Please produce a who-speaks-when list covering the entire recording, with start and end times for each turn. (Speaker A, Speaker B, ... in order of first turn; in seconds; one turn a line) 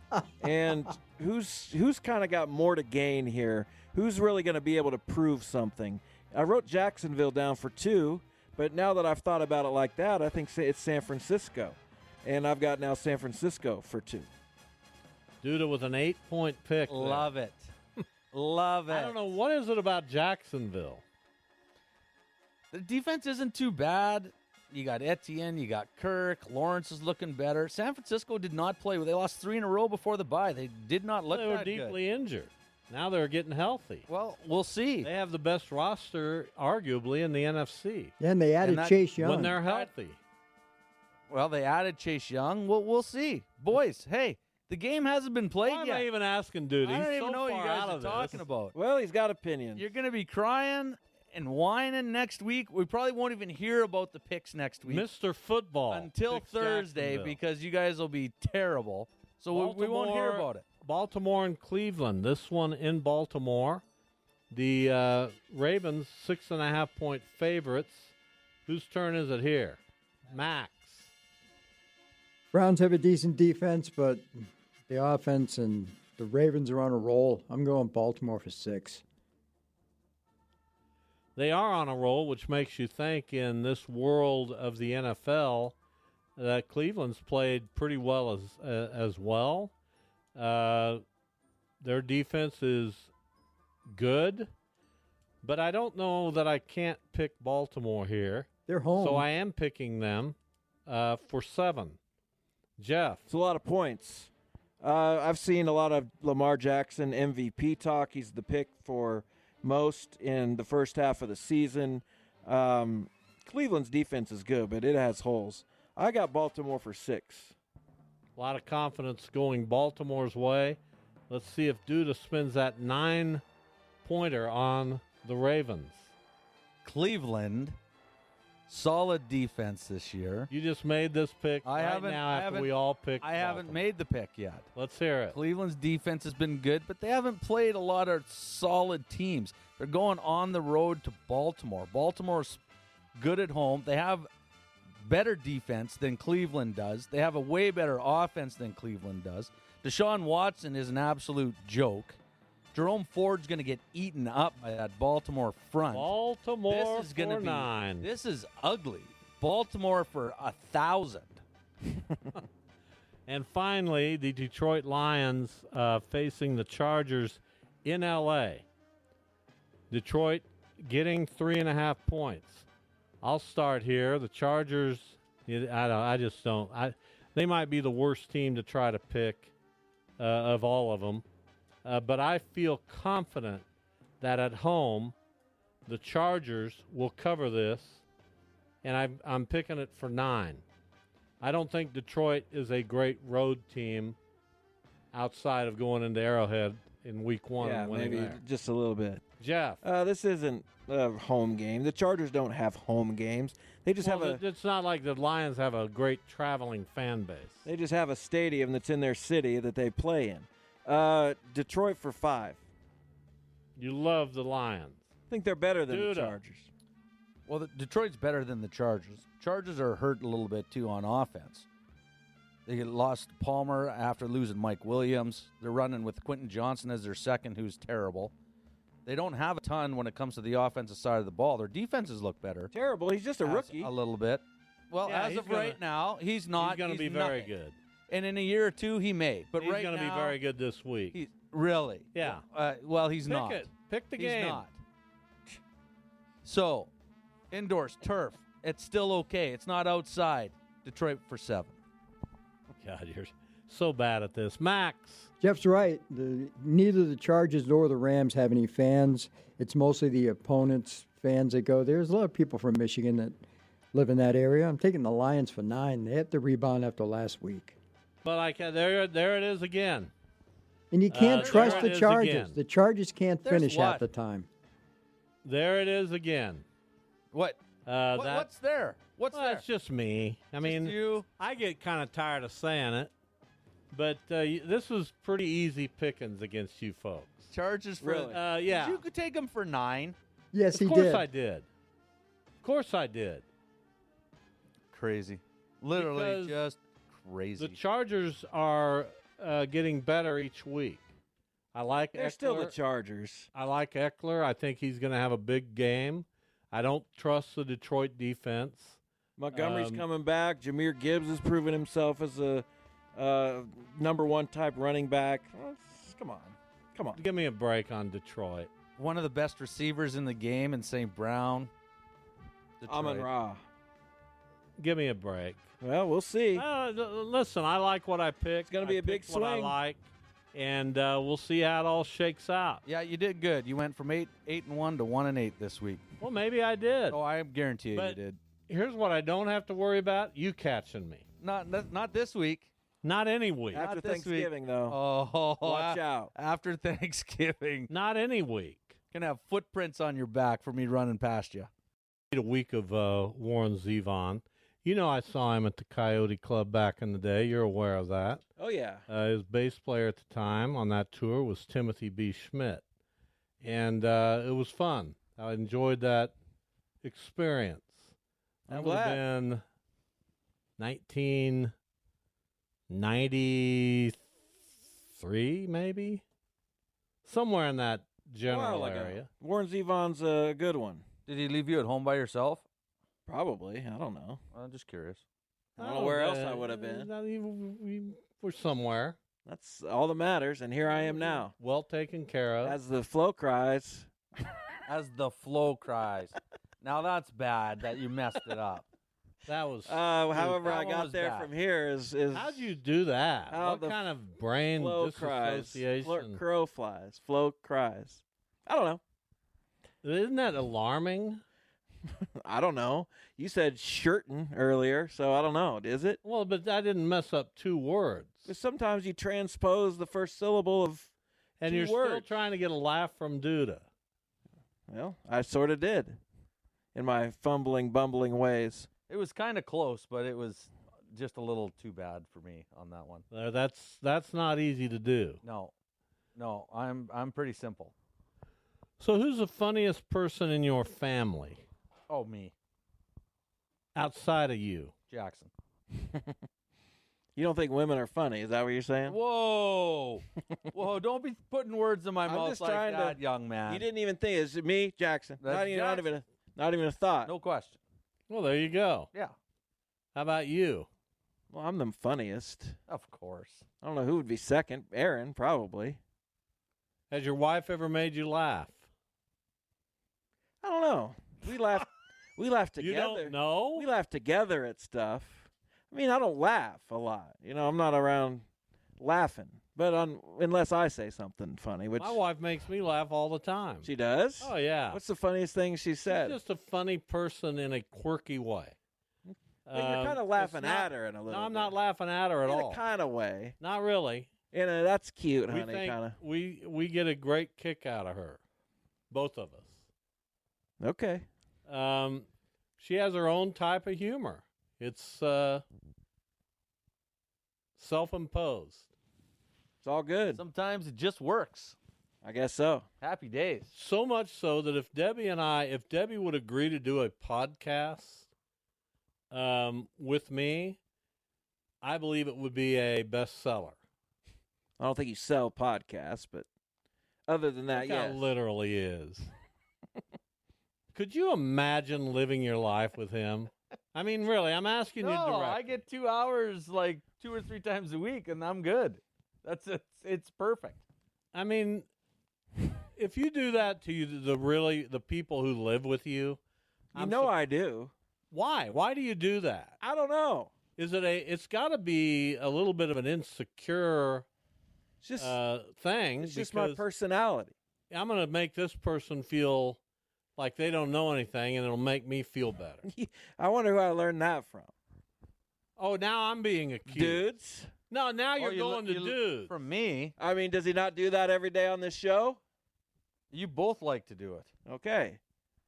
Speaker A: 0.4-14.3
Speaker B: 15.4-17.3
Speaker C: 16.9-17.7
Speaker C: 18.3-19.2
Speaker B: 18.9-21.0
Speaker C: 22.7-32.0
Speaker B: 31.3-34.1
Speaker C: 34.1-35.1
Speaker B: 35.0-38.1
Speaker D: 38.2-39.6
Speaker C: 38.6-39.1
Speaker B: 39.2-40.2
Speaker C: 39.6-39.9
Speaker C: 41.3-46.1
Speaker B: 45.6-48.4
Speaker C: 46.8-48.7
Speaker A: 48.7-49.9
Speaker C: 49.8-55.1
Speaker B: 54.9-57.4
Speaker C: 55.9-60.6
Speaker B: 59.5-63.8
Speaker B: 64.5-68.1
Speaker B: 68.7-71.1
Speaker D: 72.5-74.3
Speaker D: 74.9-79.0
Speaker B: 81.3-85.8
Speaker B: 86.4-89.7
Speaker B: 90.3-91.0
Speaker B: 91.8-93.1
Speaker B: 93.9-94.5
Speaker B: 95.4-102.0
Speaker D: 98.7-99.3
Speaker B: 102.8-103.2
Speaker A: 103.3-104.3
Speaker A: 104.8-117.5
Speaker B: 118.4-123.4
Speaker B: 124.0-126.1
Speaker C: 126.8-127.8
Speaker C: 128.7-130.5
Speaker B: 130.5-133.8
Speaker C: 131.6-134.7
Speaker B: 134.7-135.4
Speaker C: 135.3-142.6
Speaker C: 143.2-144.3
Speaker C: 145.0-152.2
Speaker C: 152.7-156.1
Speaker B: 155.9-158.1
Speaker C: 156.7-161.4
Speaker B: 163.3-168.7
Speaker B: 169.9-172.7
Speaker B: 173.2-179.5
Speaker B: 180.2-181.2
Speaker B: 181.8-183.7
Speaker B: 184.2-185.1
Speaker B: 185.8-188.0
Speaker B: 188.8-190.6
Speaker B: 191.4-194.2
Speaker B: 195.1-198.4
Speaker A: 197.6-199.2
Speaker B: 199.4-199.8
Speaker A: 199.8-204.4
Speaker B: 204.0-207.7
Speaker A: 207.6-212.6
Speaker B: 213.8-215.0
Speaker A: 215.3-216.7
Speaker B: 215.9-216.4
Speaker C: 217.5-221.7
Speaker C: 222.7-228.3
Speaker C: 229.1-232.7
Speaker A: 232.7-233.9
Speaker C: 233.4-237.5
Speaker B: 235.0-235.8
Speaker B: 236.6-237.8
Speaker C: 238.1-240.4
Speaker B: 239.6-241.2
Speaker C: 241.1-244.8
Speaker B: 242.1-242.4
Speaker B: 243.2-244.6
Speaker C: 246.4-246.9
Speaker C: 247.5-251.8
Speaker B: 252.8-255.3
Speaker D: 255.4-263.4
Speaker D: 263.9-267.8
Speaker B: 268.2-270.1
Speaker D: 270.9-274.5
Speaker B: 271.1-272.6
Speaker C: 271.3-272.0
Speaker C: 273.4-274.1
Speaker B: 275.4-276.6
Speaker C: 277.3-277.6
Speaker B: 277.9-278.5
Speaker C: 278.1-279.6
Speaker B: 279.3-283.1
Speaker C: 280.6-281.3
Speaker B: 283.9-287.5
Speaker C: 287.5-290.1
Speaker A: 288.0-288.4
Speaker B: 288.3-289.0
Speaker D: 290.5-291.3
Speaker B: 290.7-291.7
Speaker B: 292.6-293.4
Speaker C: 294.9-297.8
Speaker B: 295.9-296.6
Speaker B: 297.6-301.0
Speaker B: 301.7-302.7
Speaker A: 302.1-303.5
Speaker B: 303.5-309.0
Speaker A: 309.4-317.2
Speaker B: 309.5-310.0
Speaker B: 317.1-318.7
Speaker C: 319.0-321.7
Speaker C: 322.8-323.3
Speaker A: 322.9-323.6
Speaker B: 324.8-325.6
Speaker A: 325.8-326.6
Speaker B: 326.5-330.0
Speaker A: 328.7-329.8
Speaker B: 330.5-332.8
Speaker C: 332.9-336.1
Speaker B: 336.2-337.2
Speaker C: 337.1-338.4
Speaker B: 337.9-341.2
Speaker C: 341.4-342.7
Speaker B: 343.0-343.8
Speaker A: 343.7-345.0
Speaker C: 343.8-347.9
Speaker A: 345.6-346.3
Speaker B: 347.9-348.9
Speaker C: 349.1-351.7
Speaker B: 352.3-358.4
Speaker A: 358.6-359.0
Speaker B: 359.1-362.8
Speaker B: 363.6-366.3
Speaker B: 367.0-368.1
Speaker A: 368.7-369.2
Speaker B: 368.7-369.6
Speaker B: 370.8-371.7
Speaker B: 372.9-374.2
Speaker B: 375.1-376.2
Speaker B: 377.2-379.3
Speaker A: 378.5-381.0
Speaker C: 381.3-382.6
Speaker A: 383.3-384.4
Speaker C: 384.5-385.2
Speaker A: 385.8-387.1
Speaker B: 385.8-389.2
Speaker A: 389.4-391.5
Speaker B: 390.9-392.8
Speaker A: 392.6-394.1
Speaker C: 394.9-398.9
Speaker B: 399.5-400.0
Speaker A: 399.9-402.7
Speaker C: 400.3-401.5
Speaker B: 402.3-406.4
Speaker A: 403.5-404.0
Speaker A: 404.7-409.0
Speaker B: 410.0-411.4
Speaker A: 412.4-416.2
Speaker B: 416.2-418.5
Speaker A: 418.4-421.1
Speaker B: 421.6-423.9
Speaker A: 421.6-422.4
Speaker A: 424.9-426.2
Speaker A: 426.9-428.9
Speaker C: 429.1-433.2
Speaker B: 433.3-435.4
Speaker C: 435.4-435.7
Speaker C: 436.3-437.9
Speaker B: 439.0-441.6
Speaker C: 442.1-442.5
Speaker B: 443.9-444.9
Speaker C: 445.1-445.5
Speaker A: 445.9-446.3
Speaker A: 447.4-449.2
Speaker C: 449.1-453.9
Speaker A: 452.2-457.3
Speaker C: 455.4-456.1
Speaker C: 457.2-457.8
Speaker B: 458.3-459.1
Speaker B: 460.1-460.9
Speaker A: 461.5-462.8
Speaker C: 462.9-463.6
Speaker A: 463.8-466.0
Speaker B: 467.1-468.8
Speaker A: 470.6-478.4
Speaker B: 472.8-473.9
Speaker A: 479.0-482.2
Speaker B: 482.0-485.0
Speaker A: 483.8-486.4
Speaker B: 486.1-488.8
Speaker A: 489.3-491.7
Speaker B: 489.6-492.8
Speaker A: 492.4-493.5
Speaker B: 493.6-494.3
Speaker A: 494.5-496.2
Speaker B: 495.5-498.4
Speaker B: 499.1-499.8
Speaker A: 500.8-501.3
Speaker B: 501.7-502.3
Speaker B: 502.8-505.6
Speaker B: 507.8-508.9
Speaker A: 509.8-510.4
Speaker C: 510.3-511.8
Speaker A: 512.2-512.9
Speaker C: 513.0-513.7
Speaker B: 513.7-518.3
Speaker B: 519.3-520.8
Speaker B: 521.8-523.8
Speaker A: 524.8-526.5
Speaker A: 527.3-528.3
Speaker B: 527.7-529.3
Speaker B: 530.9-535.8
Speaker C: 535.0-540.8
Speaker B: 541.3-541.9
Speaker B: 543.0-546.4
Speaker A: 546.9-547.9
Speaker B: 546.9-547.3
Speaker B: 548.3-549.8
Speaker A: 549.8-550.5
Speaker B: 550.8-554.2
Speaker A: 555.0-555.4
Speaker B: 555.2-556.8
Speaker A: 556.2-557.5
Speaker B: 557.9-559.8
Speaker B: 560.4-562.9
Speaker A: 562.8-564.7
Speaker B: 565.8-567.2
Speaker A: 566.9-567.7
Speaker B: 567.9-569.5
Speaker C: 568.4-570.1
Speaker A: 570.2-572.4
Speaker C: 573.3-574.5
Speaker A: 574.7-575.2